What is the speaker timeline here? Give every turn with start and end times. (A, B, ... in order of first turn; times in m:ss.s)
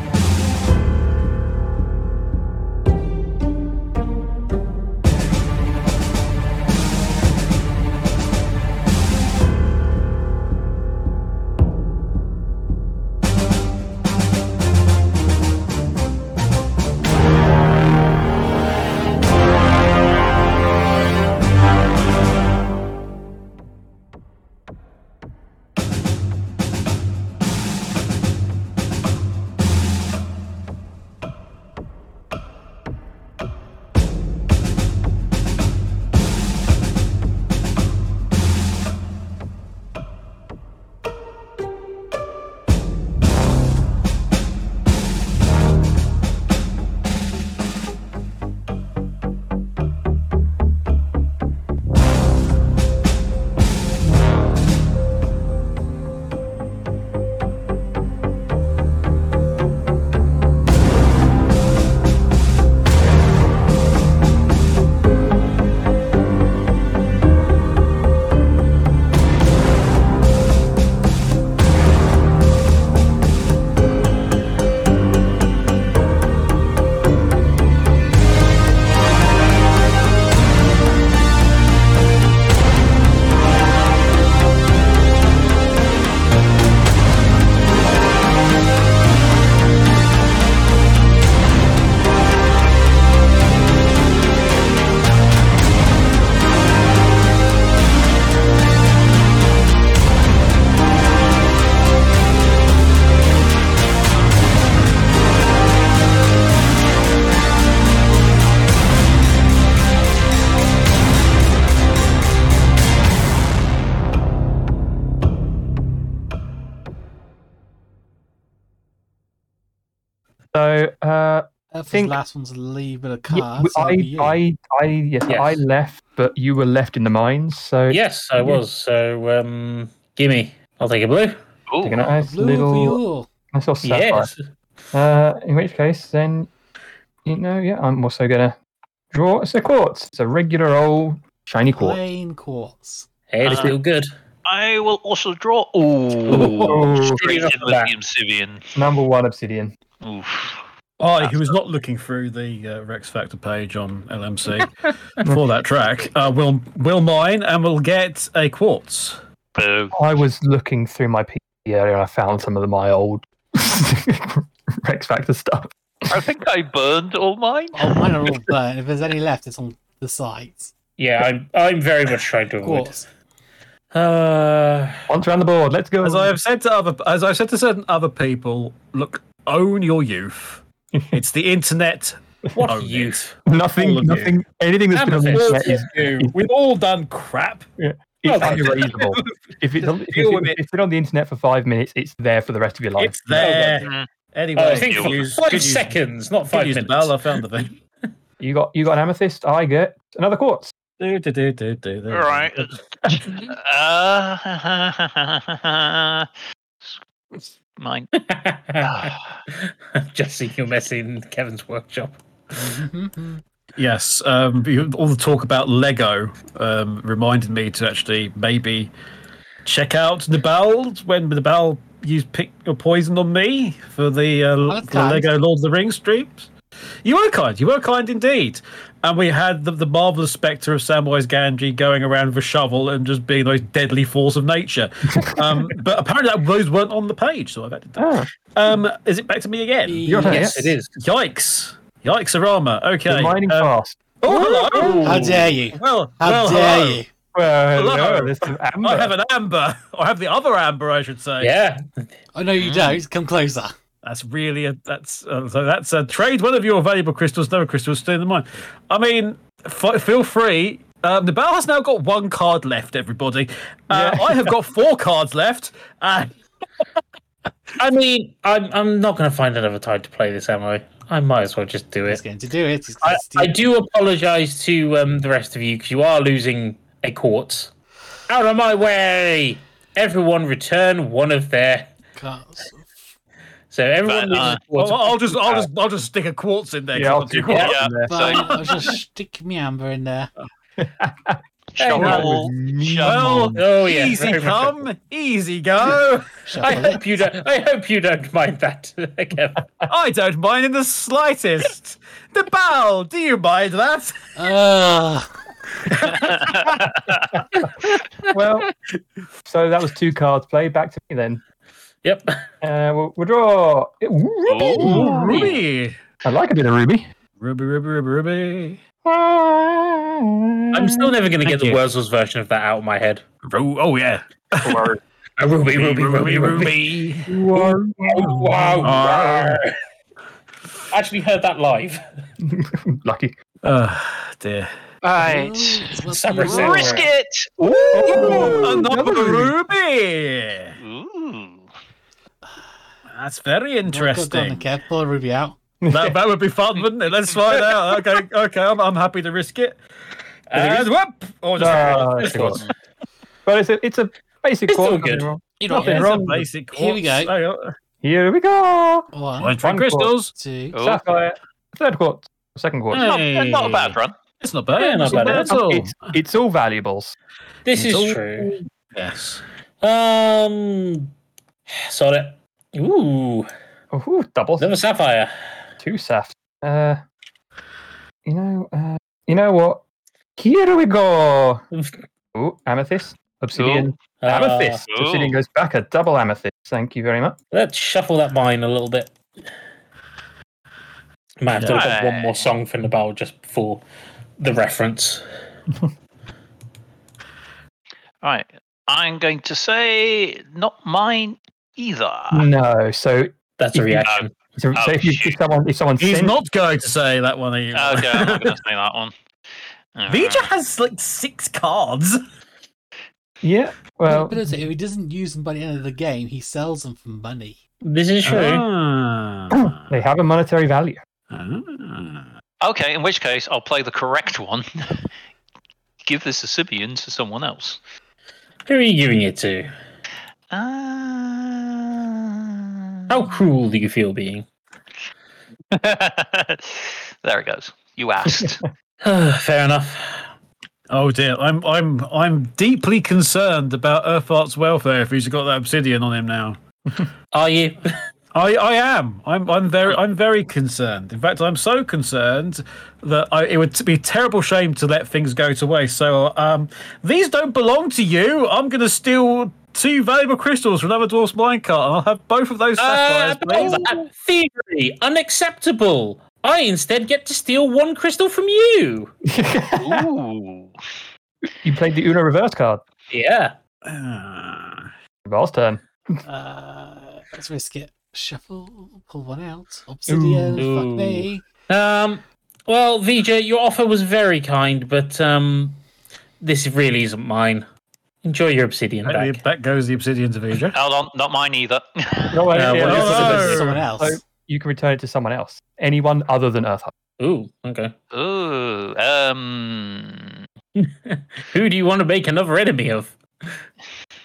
2:00.5-2:02.2 A
2:01.7-2:04.4 B
2:03.3-2:08.6 A
2:05.3-2:05.6 C
2:07.9-2:11.4 C
2:11.7-2:12.0 D
2:11.8-2:13.0 A
2:12.2-2:13.3 B
2:13.5-2:14.3 A
2:13.8-2:14.5 C
2:14.9-2:16.5 A
2:17.2-2:18.6 A
2:19.1-2:22.0 A
2:21.7-2:23.1 B
2:23.3-2:24.1 C
2:23.4-2:23.8 D
2:24.4-2:28.7 D
2:26.3-2:27.9 C
2:26.3-2:27.2 A
2:28.8-2:29.7 A
2:30.0-2:30.7 D
2:31.0-2:39.2 E
2:31.2-2:31.5 D
2:39.6-2:40.0 D
2:39.9-2:46.2 A
2:46.1-2:47.8 D
2:47.7-2:50.7 B
2:51.0-2:53.0 C
2:52.6-2:53.1 B
2:53.9-2:55.0 C
2:55.1-2:56.4 A
2:56.0-3:03.2 E
3:02.6-3:03.4 C
3:03.5-3:06.3 A
3:03.8-3:04.3 E
3:04.9-3:06.3 C
3:05.3-3:07.7 E
3:07.8-3:13.5 A
3:08.2-3:08.9 C
3:08.4-3:08.9 E
3:10.2-3:10.5 D
3:13.0-3:16.0 E
3:13.4-3:13.8 C
3:13.8-3:14.1 D
3:14.6-3:17.2 C
3:14.7-3:15.2 D
3:16.5-3:17.7 E
3:18.4-3:20.7 A
3:21.0-3:23.5 E
3:22.1-3:26.3 D
3:27.8-3:28.1 D
3:28.2-3:32.2 C
3:28.8-3:29.3 D
3:32.5-3:33.4 B
3:33.8-3:38.9 E
3:39.6-3:46.5 E
3:44.7-3:45.3 B
3:47.0-4:00.1 E
3:55.2-3:55.8 A
3:58.0-3:58.3 A
3:59.8-4:00.5 B
4:00.1-4:00.8 A
4:00.3-4:00.9 C
4:01.0-4:07.0 E
4:03.1-4:04.0 A
4:04.3-4:05.4 C
4:04.7-4:05.3 A
4:05.0-4:07.1 B
4:07.3-4:09.1 A
4:07.8-4:11.5 E
4:11.4-4:12.1 C
4:12.4-4:13.7 B
4:12.6-4:13.0 D
4:14.0-4:26.4 E
4:23.9-4:24.5 A
4:27.8-4:32.2 C
4:32.1-4:33.6 B
4:33.0-4:37.7 C
4:38.3-4:41.9 C
4:42.2-4:43.1 B
4:43.7-4:45.7 C
4:44.0-4:44.7 D
4:44.7-4:47.8 E
4:46.9-4:48.3 A
4:47.5-4:47.8 C
4:47.6-4:48.5 D
4:48.1-4:50.3 B
4:50.8-4:51.4 A
4:51.8-4:52.4 C
4:51.8-4:53.4 D
4:51.9-4:53.6 A
4:53.0-4:56.4 E
4:53.5-4:54.8 C
4:56.5-4:57.0 B
4:56.6-4:59.6 C
4:59.9-5:04.2 E
5:04.4-5:05.3 B
5:05.9-5:06.3 E
5:06.1-5:07.2 D
5:07.1-5:07.4 A
5:08.3-5:08.7 A
5:09.5-5:11.4 A
5:12.0-5:12.4 C
5:12.6-5:15.5 A
5:14.4-5:15.1 D
5:14.7-5:16.0 E
5:15.3-5:15.6 C
5:16.2-5:17.1 A
5:17.4-5:18.8 E
5:19.0-5:21.1 A
5:20.7-5:23.2 C
5:21.4-5:21.8 E
5:23.4-5:24.9 E
5:24.6-5:25.0 A
5:25.4-5:26.8 C
5:25.8-5:27.3 E
5:27.3-5:29.0 A
5:27.5-5:29.7 C
5:28.8-5:29.6 E
5:30.9-5:32.0 C
5:32.4-5:33.4 A
5:33.6-5:34.7 E
5:35.0-5:38.8 D
5:35.2-5:37.0 B
5:36.1-5:37.1 C
5:36.7-5:37.1 A
5:37.6-5:39.5 A
5:38.1-5:40.8 E
5:40.8-5:41.7 D
5:43.1-5:44.7 E
5:43.8-5:45.6 B
5:45.8-5:46.2 A
5:45.9-5:49.8 E
5:50.5-5:52.7 E
5:50.5-5:50.9 C
5:51.6-5:52.6 A
5:53.5-5:56.5 A
5:54.7-5:55.3 C
5:55.6-5:56.2 B
5:55.7-5:57.7 E
5:56.7-5:57.3 B
5:58.0-5:59.1 A
5:59.1-5:59.5 B
5:59.4-6:00.3 E
5:59.6-6:00.1 A
6:00.4-6:00.8 B
6:00.7-6:01.0 D
6:00.8-6:03.1 A
6:02.9-6:06.2 E
6:03.0-6:04.2 D
6:04.8-6:05.6 C
6:05.1-6:07.2 A
6:07.7-6:08.5 C
6:07.7-6:08.2 E
6:08.9-6:09.4 E
6:09.8-6:11.1 C
6:11.7-6:13.5 C
6:13.9-6:14.7 A
6:14.6-6:15.3 C
6:15.8-6:17.0 A
6:18.3-6:19.8 A
6:20.4-6:21.6 A
6:21.7-6:22.0 C
6:22.4-6:27.4 A
6:23.6-6:23.9 D
6:24.2-6:24.8 C
6:24.9-6:25.4 D
6:27.5-6:29.1 C
6:31.4-6:33.8 C
6:31.6-6:32.5 D
6:34.4-6:35.2 C
6:38.2-6:42.5 D
6:42.3-6:44.0 A
6:43.6-6:44.3 C
6:44.0-6:45.4 D
6:44.6-6:46.4 A
6:46.0-6:48.6 E
6:47.7-6:49.1 D
6:50.0-6:50.5 D
6:50.1-6:52.2 E
6:53.4-6:54.4 A
6:54.1-6:57.6 B
6:57.8-6:58.6 C
6:58.2-6:59.9 E
6:59.5-7:01.0 A
7:01.3-7:02.3 E
7:02.6-7:04.9 D
7:06.0-7:07.8 D
7:08.7-7:09.7 C
7:10.5-7:13.0 D
7:13.1-7:14.5 C
7:15.7-7:18.6 D
7:18.2-7:18.6 A
7:19.0-7:20.3 C
7:20.9-7:26.6 E
7:27.3-7:27.9 C
7:28.3-7:43.9 E
7:42.8-7:49.1 C
7:49.3-7:50.1 A
7:49.8-7:50.8 D
7:51.6-7:52.8 A
7:53.1-7:53.6 C
7:53.8-7:54.9 E
7:55.3-7:56.2 A
7:56.3-8:01.4 B
8:00.1-8:00.7 A
8:00.6-8:05.8 C
8:06.4-8:07.7 C
8:08.2-8:09.4 C
8:09.1-8:10.8 E
8:10.7-8:12.4 D
8:12.3-8:16.9 A
8:12.5-8:13.5 C
8:12.7-8:13.8 E
8:12.9-8:14.2 B
8:17.2-8:17.9 C
8:18.1-8:20.4 D
8:20.8-8:23.2 C